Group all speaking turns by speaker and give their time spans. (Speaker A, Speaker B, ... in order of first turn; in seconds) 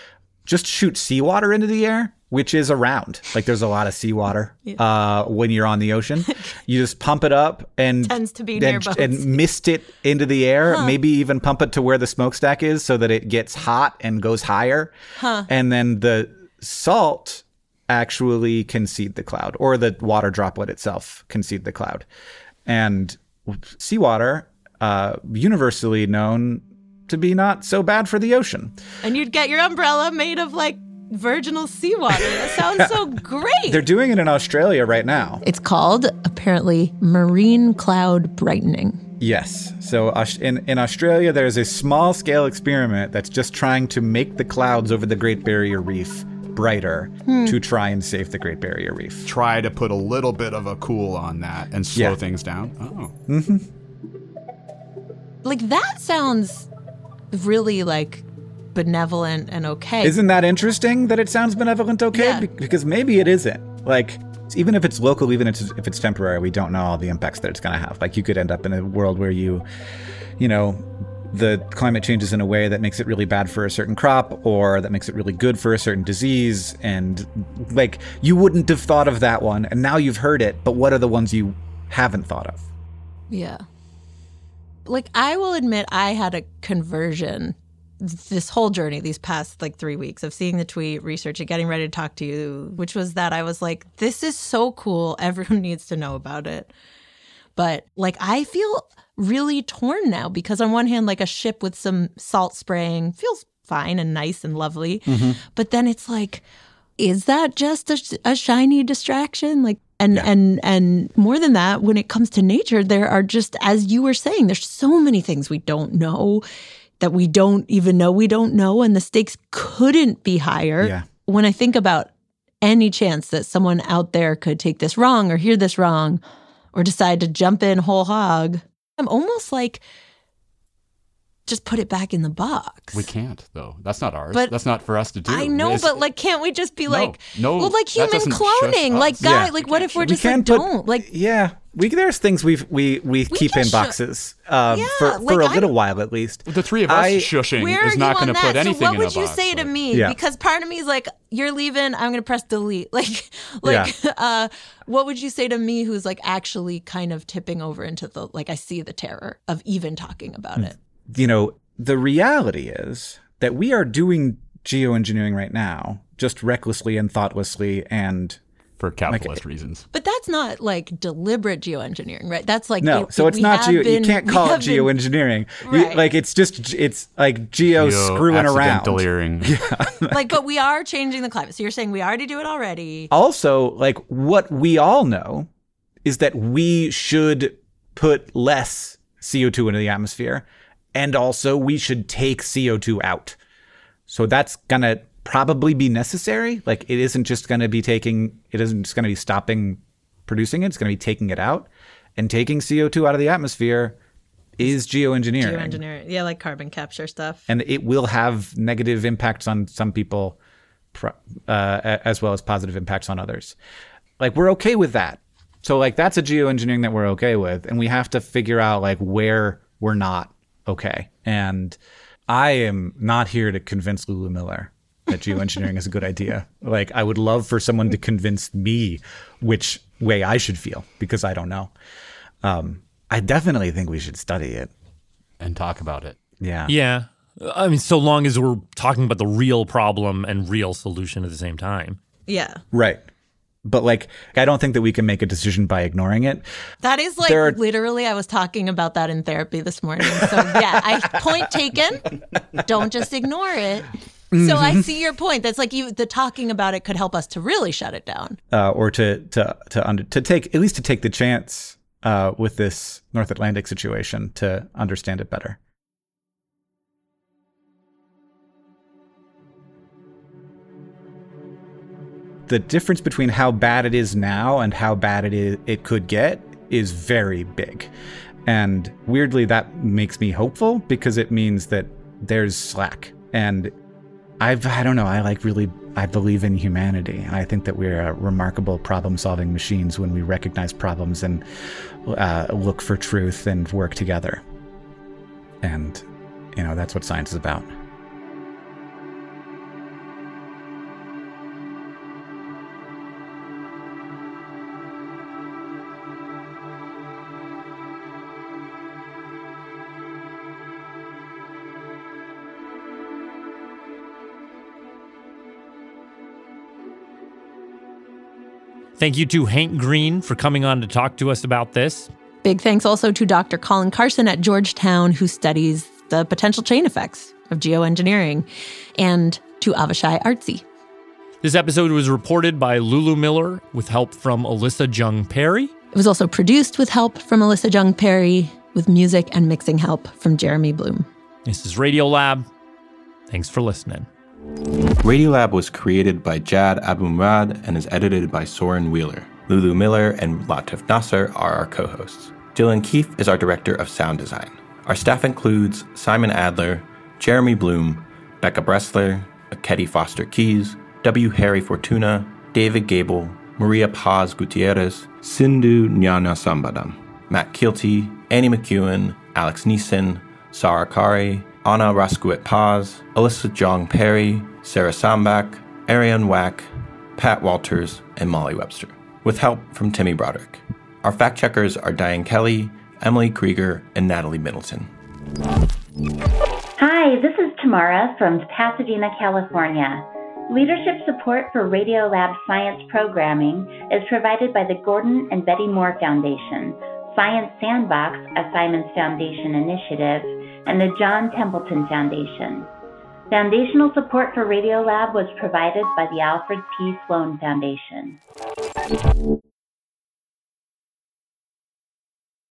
Speaker A: 0.5-14.9, 15.5-22.1, 22.6-28.8, 32.1-33.1, 33.7-35.4, 39.2-49.3, 53.3-53.6, 60.0-69.6, 70.4-82.7, 105.1-105.4, 120.8-121.0, 139.2-147.3, 149.9-150.2, 153.6-153.9, 160.6-168.4, 169.1-169.4, 172.8-180.3, 183.1-185.5, 186.0-190.4, 190.9-193.4, 194.1-204.0, 204.6-205.8, 207.5-210.4, 210.9-213.6, 214.2-231.7, 232.4-234.7, 236.4-236.7, 242.7-243.0, 243.6-246.4, 247.2-247.6, 250.1-251.3, 254.3-254.9, 258.5-265.6, 272.5-277.9, 278.4-283.7, 284.4-291.4, 292.1-294.4, 295.6-297.7
Speaker B: 6.2-6.5, 8.0-9.4, 10.7-10.9, 15.2-15.5, 29.0-33.8, 35.4-39.0, 47.2-47.6, 55.4-56.7, 57.3-60.1, 62.1-62.5, 83.3-83.6, 84.8-96.7, 97.6-106.4, 107.0-116.4, 117.0-122.1, 122.6-126.2, 126.7-129.8, 131.5-133.1, 134.3-134.6, 135.2-141.1, 143.3-143.9, 144.7-145.7, 147.5-160.7, 169.9-174.9, 175.6-176.0, 180.1-183.1, 205.3-207.4, 242.3-242.6, 246.8-252.1, 252.6-258.4, 322.4-328.4, 329.0-330.6, 335.9-341.1
Speaker C: 49.2-53.1, 132.9-136.0, 136.9-140.2, 146.4-149.8, 168.8-169.8, 177.6-179.6, 235.4-236.2
Speaker D: 236.7-242.0, 319.0-322.1, 331.4-335.7, 341.4-342.4, 343.3-344.1
Speaker E: 345.0-384.9
Speaker F: 386.8-402.7, 403.3-408.2